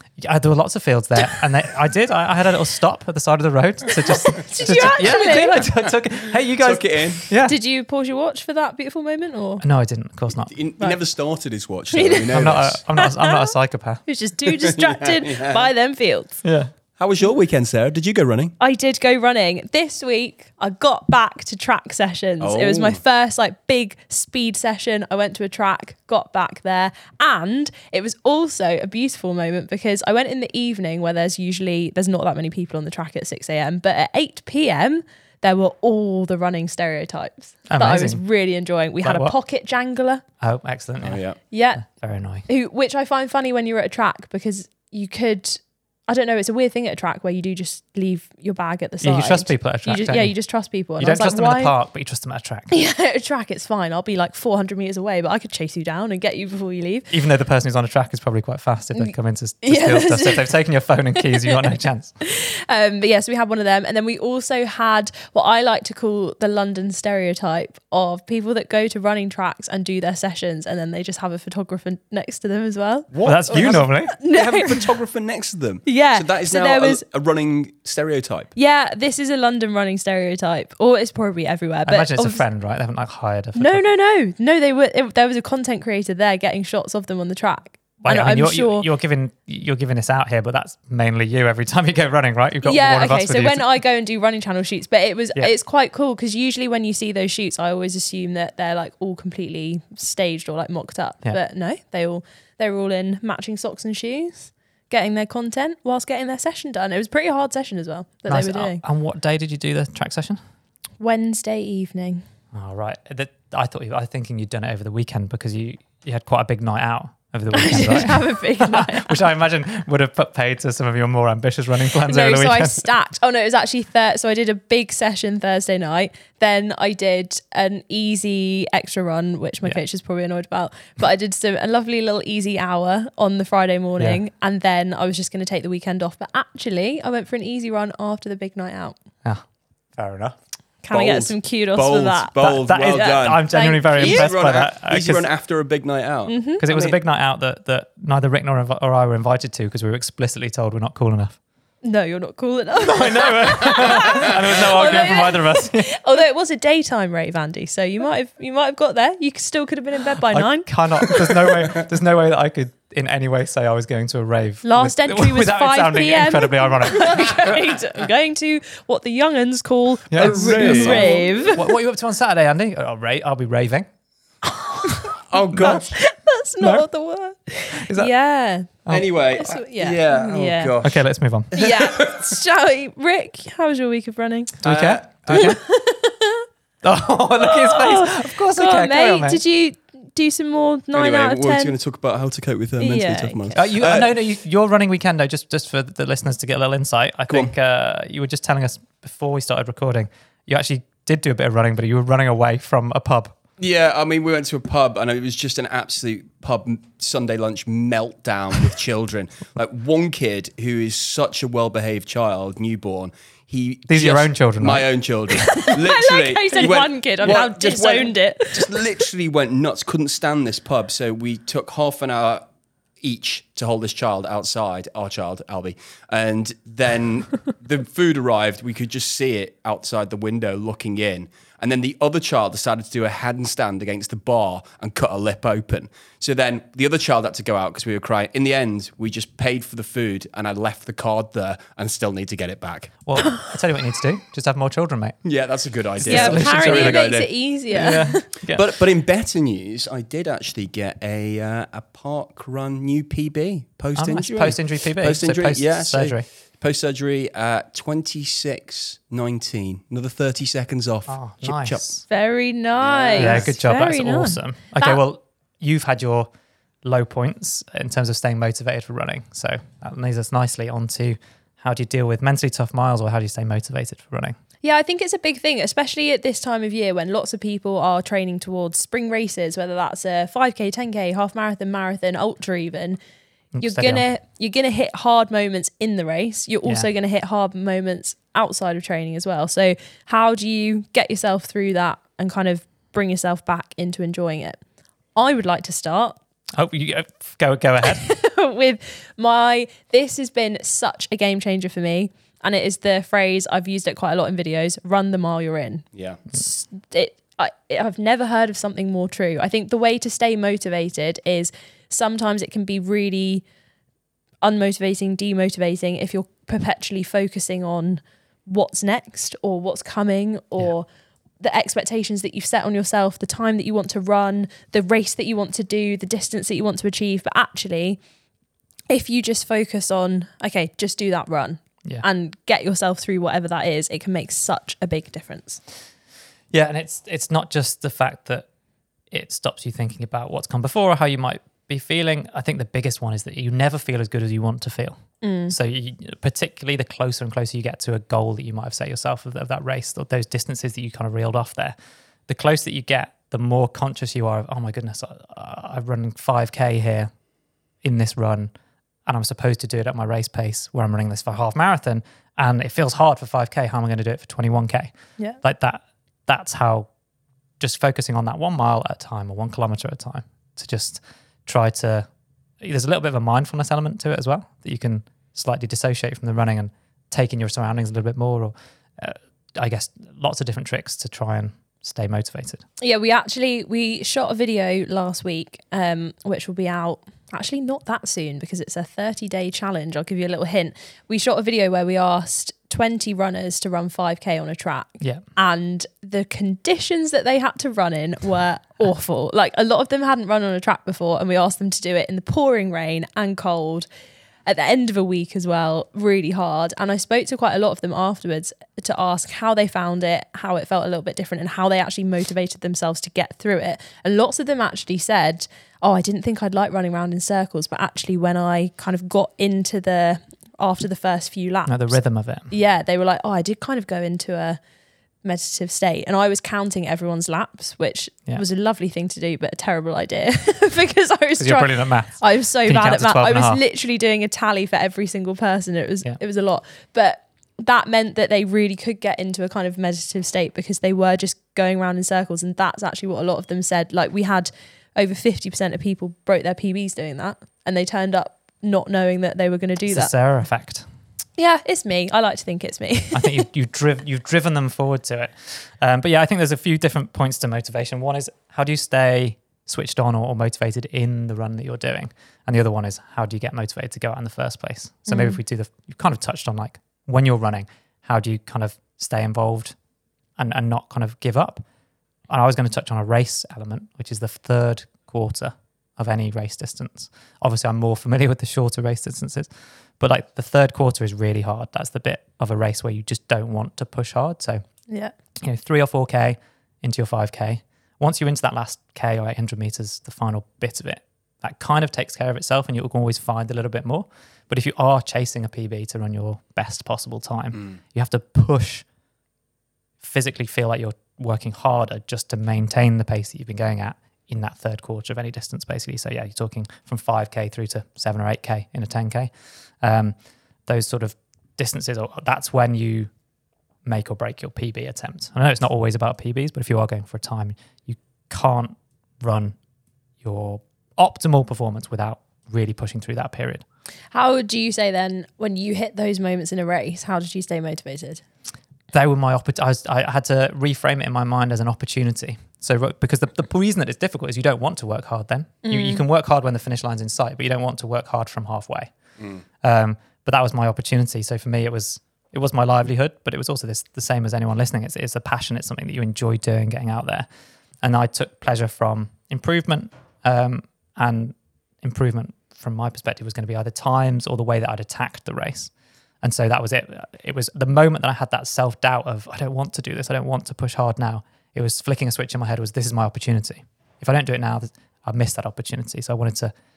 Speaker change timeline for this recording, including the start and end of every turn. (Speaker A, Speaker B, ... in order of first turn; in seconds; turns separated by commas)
Speaker A: 0.2-7.6, Speaker B: 4.0-5.7, Speaker C: 6.6-7.3, Speaker B: 7.5-9.6, Speaker A: 9.6-10.5, Speaker C: 10.5-12.8, Speaker B: 11.9-13.5, Speaker A: 12.3-14.0, Speaker B: 14.1-16.4, Speaker C: 14.5-15.7, Speaker A: 16.4-16.7, Speaker C: 17.0-18.5, Speaker B: 18.6-40.2, Speaker C: 22.4-23.0, Speaker A: 37.7-38.2, Speaker A: 39.0-39.3, Speaker A: 40.4-41.2, Speaker C: 41.0-41.4, Speaker B: 41.5-41.9, Speaker A: 41.8-42.5, Speaker B: 42.5-51.7, Speaker A: 49.0-50.3, Speaker A: 51.0-52.7, Speaker B: 52.7-57.1, Speaker A: 57.1-62.1, Speaker B: 59.0-60.5, Speaker B: 61.1-75.0, Speaker C: 73.1-78.5, Speaker A: 73.2-74.2, Speaker B: 75.9-77.0, Speaker B: 78.6-82.4, Speaker A: 81.9-83.8, Speaker B: 83.6-88.9, Speaker A: 88.0-93.7, Speaker B: 92.7-108.8, Speaker A: 108.3-110.4, Speaker B: 111.0-112.2, Speaker A: 112.5-122.8, Speaker B: 117.5-119.2, Speaker B: 122.0-139.0, Speaker A: 140.0-140.4, Speaker B: 140.8-144.3, Speaker C: 140.9-147.0, Speaker A: 142.4-145.3, Speaker B: 146.3-146.6, Speaker A: 146.6-151.4, Speaker B: 151.8-161.0, Speaker A: 152.8-155.9, Speaker A: 160.3-167.6, Speaker B: 164.6-171.6, Speaker A: 170.1-173.9, Speaker C: 170.2-171.6, Speaker B: 174.5-178.8, Speaker C: 175.3-175.9, Speaker A: 175.5-175.8, Speaker A: 176.6-176.9, Speaker A: 177.7-178.1, Speaker C: 178.9-181.0, Speaker B: 179.3-180.8, Speaker A: 180.8-181.6, Speaker C: 181.5-182.4, Speaker B: 181.5-184.6, Speaker C: 184.6-185.6, Speaker A: 184.6-185.6, Speaker B: 185.3-186.5, Speaker A: 186.8-189.4, Speaker B: 187.4-191.7, Speaker C: 190.9-194.2, Speaker B: 192.8-193.6, Speaker A: 193.5-203.4, Speaker C: 203.6-222.4, Speaker A: 213.9-215.7, Speaker B: 215.4-218.9, Speaker C: 223.0-242.9, Speaker A: 243.1-245.2, Speaker C: 245.2-261.9, Speaker A: 246.0-247.1, Speaker B: 246.1-248.3, Speaker A: 247.7-248.6, Speaker A: 254.0-256.3, Speaker A: 261.1-262.1, Speaker B: 262.1-265.0, Speaker C: 262.8-263.5, Speaker A: 263.2-266.3, Speaker A: 266.8-274.4, Speaker B: 274.6-283.0, Speaker A: 283.6-284.1, Speaker B: 283.6-294.6, Speaker B: 295.1-296.2, Speaker A: 296.6-298.1, Speaker B: 298.0-313.4, Speaker C: 305.9-306.2, Speaker B: 314.4-320.9, Speaker B: 321.4-328.0, Speaker B: 328.9-335.6, Speaker A: 336.5-338.5, Speaker A: 339.1-351.8, Speaker B: 345.2-345.5, Speaker A: 352.3-357.1, Speaker A: 357.8-358.5, Speaker A: 359.1-366.9, Speaker A: 367.6-372.1, Speaker A: 372.6-382.6, Speaker B: 382.8-403.9, Speaker B: 404.5-422.0, Speaker A: 421.7-422.5, Speaker B: 422.5-424.6, Speaker B: 425.2-450.1, Speaker A: 431.4-433.6, Speaker A: 449.9-450.9, Speaker B: 451.4-453.4, Speaker A: 453.1-469.8, Speaker B: 465.1-465.4, Speaker A: 470.4-471.6, Speaker A: 472.3-484.6, Speaker B: 484.9-485.1, Speaker A: 485.4-498.9, Speaker A: 500.0-509.3, Speaker A: 509.8-513.1, Speaker A: 513.9-519.6, Speaker A: 520.2-523.6, Speaker B: 524.1-528.2, Speaker A: 528.9-538.9, Speaker B: 535.6-536.0, Speaker A: 539.6-547.3, Speaker A: 547.8-555.7, Speaker A: 556.2-566.5